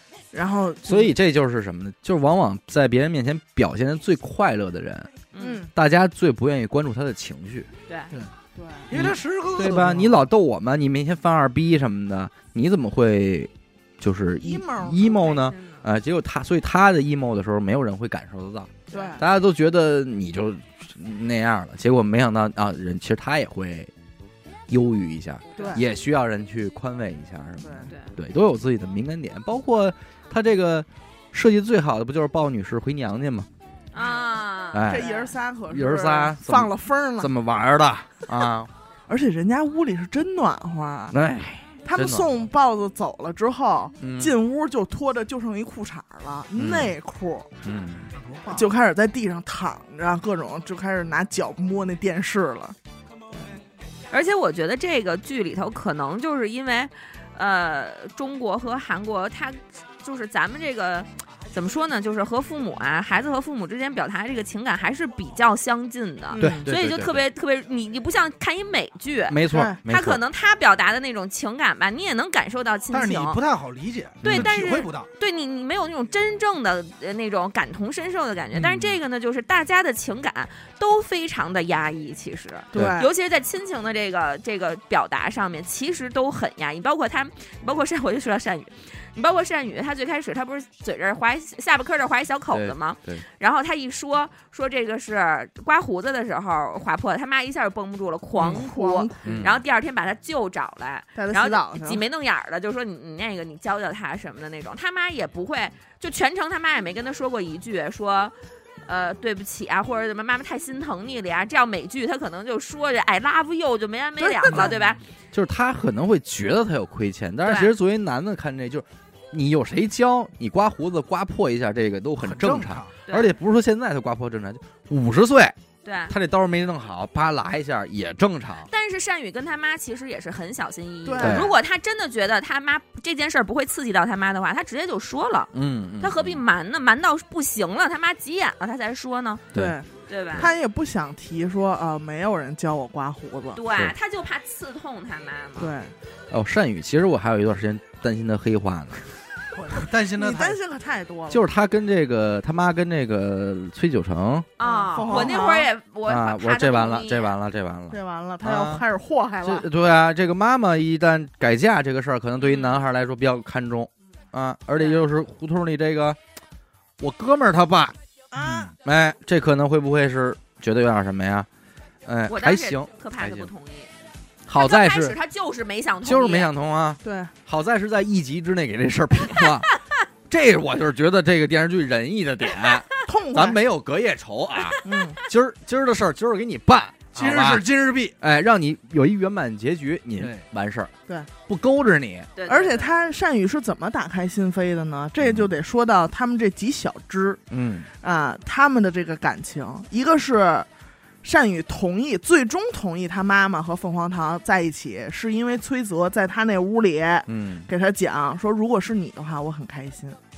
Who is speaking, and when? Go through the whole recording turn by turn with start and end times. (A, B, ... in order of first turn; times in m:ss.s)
0:00.3-0:01.1 A
0:00.8-0:05.1 B
0:05.3-0:05.6 C
0:05.4-0:05.7 A
0:05.7-0:07.7 B
0:07.9-0:08.1 C
0:08.6-0:08.9 A
0:08.9-0:10.2 D
0:08.9-0:23.9 B
0:14.4-0:15.3 A
0:15.0-0:15.8 C
0:18.9-0:19.2 A
0:24.7-0:33.5 B
0:25.6-0:25.8 A
0:27.6-0:27.9 A
0:33.9-0:35.3 C
0:34.7-0:35.1 B
0:34.9-0:37.3 A
0:35.7-0:38.7 B
0:39.1-0:41.2 A
0:41.1-0:42.3 B
0:41.8-0:47.5 A
0:44.0-0:44.3 B
0:46.6-0:47.0 B
0:47.6-0:48.1 B
0:48.2-0:48.7 D
0:48.5-0:52.8 A
0:54.1-1:13.4 C
1:06.3-1:06.7 A
1:06.4-1:07.2 B
1:09.3-1:10.2 B
1:09.5-1:09.8 A
1:12.9-1:15.1 D
1:14.2-1:14.6 B
1:14.2-1:48.3 C
1:18.5-1:19.0 B
1:22.7-1:23.1 A
1:32.5-1:33.2 B
1:38.4-1:39.4 A
1:39.2-1:39.6 B
1:41.2-1:42.0 A
1:48.9-1:55.0 C
1:54.2-1:54.7 A
1:55.3-2:05.6 B
1:57.4-1:57.7 C
2:02.2-2:02.9 D
2:03.1-2:03.3 C
2:05.8-2:06.1 C
2:06.1-2:08.7 B
2:08.7-2:19.5 C
2:11.0-2:11.5 A
2:11.2-2:11.5 B
2:15.5-2:16.4 B
2:19.5-2:23.6 A
2:20.1-2:20.5 C
2:23.6-2:25.7 C
2:25.6-2:25.9 A
2:26.3-2:29.0 B
2:29.5-2:30.6 D
2:30.2-2:31.4 A
2:31.3-2:34.5 B
2:34.6-2:37.4 C
2:34.6-2:35.7 A
2:35.0-2:35.4 B
2:36.1-2:38.8 B
2:37.9-2:39.7 A
2:39.4-2:46.2 B
2:42.4-2:42.8 C
2:44.8-2:45.0 C
2:47.0-2:48.0 B
2:48.3-2:48.7 A
2:48.4-2:48.7 D
2:48.8-2:51.5 B
2:52.1-2:53.5 B
2:52.3-2:53.9 C
2:54.5-2:55.2 B
2:54.5-2:56.5 C
2:56.0-2:59.7 B
2:57.0-2:57.3 A
3:00.3-3:07.7 B
3:03.0-3:03.6 A
3:04.8-3:05.2 A
3:07.1-3:08.2 D
3:08.2-3:10.9 B
3:10.2-3:10.4 D
3:11.5-3:12.3 B
3:12.4-3:13.0 C
3:12.5-3:17.4 A
3:15.2-3:15.5 B
3:17.5-3:17.9 B
3:18.0-3:20.7 A
3:21.2-3:30.2 A
3:27.3-3:27.7 B